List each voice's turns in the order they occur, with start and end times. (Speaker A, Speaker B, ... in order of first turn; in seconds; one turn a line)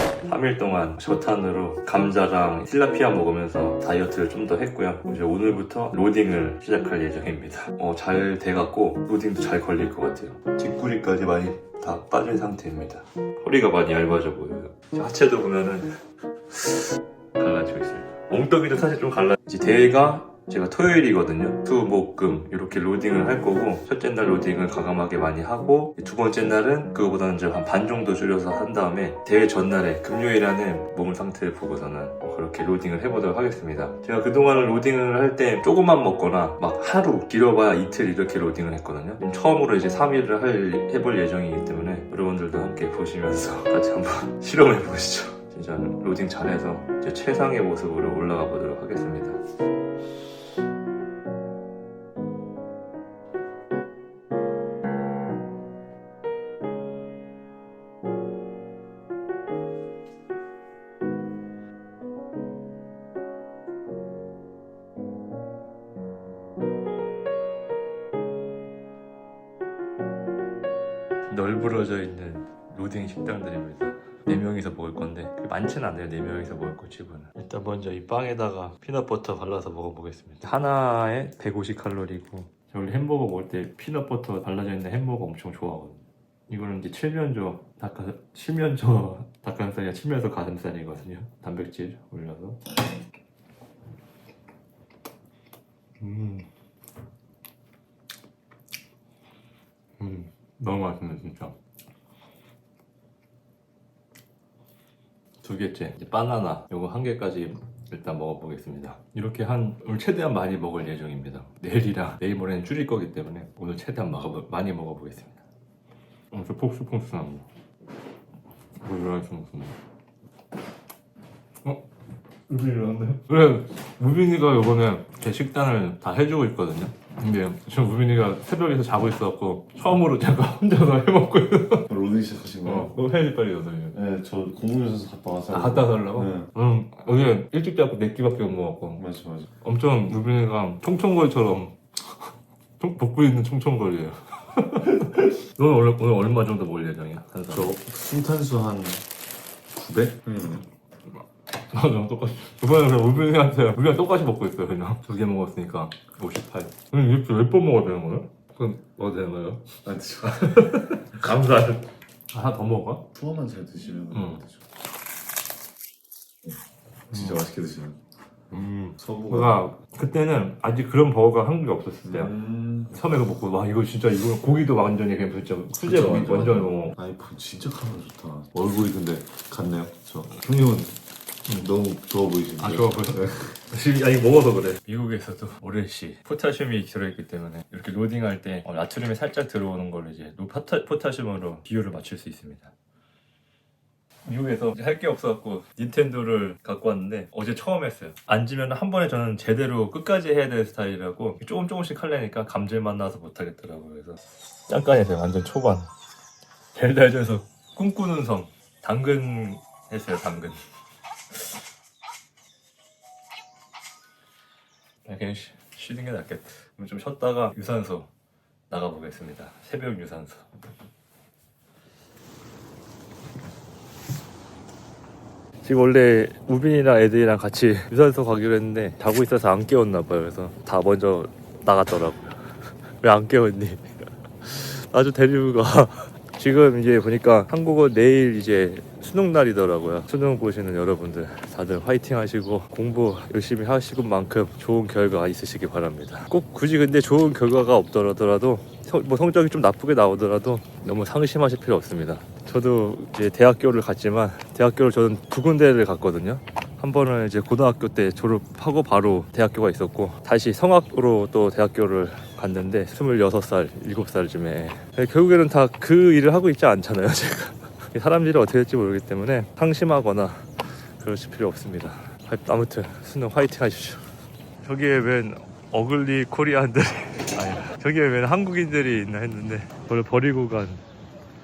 Speaker A: 0.2-49.4
Speaker A: 71.3-92.6
Speaker A: 96.0-96.5
Speaker A: 100.0-101.5
Speaker A: 105.4-115.4
Speaker A: 116.3-117.5
Speaker A: 118.8-119.7
Speaker A: 122.5-131.9
Speaker B: 131.9-132.9
Speaker A: 132.6-134.0
Speaker B: 133.9-136.5
Speaker A: 135.5-139.0
Speaker B: 139.0-139.5
Speaker A: 139.6-141.8
Speaker A: 142.8-147.7
Speaker B: 147.5-149.0
Speaker B: 149.7-150.6
Speaker A: 151.7-159.7
Speaker B: 159.8-160.4
Speaker A: 160.2-163.1
Speaker B: 163.1-164.6
Speaker A: 164.1-164.4
Speaker B: 167.1-168.0
Speaker A: 167.1-167.4
Speaker A: 168.5-172.3
Speaker B: 169.0-169.6
Speaker B: 172.0-173.0
Speaker A: 172.9-176.9
Speaker B: 175.8-180.9
Speaker B: 181.6-183.5
Speaker A: 182.6-192.7
Speaker A: 194.2-205.9
Speaker A: 206.7-210.6
Speaker A: 215.1-218.1
Speaker A: 218.7-220.5
Speaker A: 225.6-274.0
Speaker A: 274.6-280.8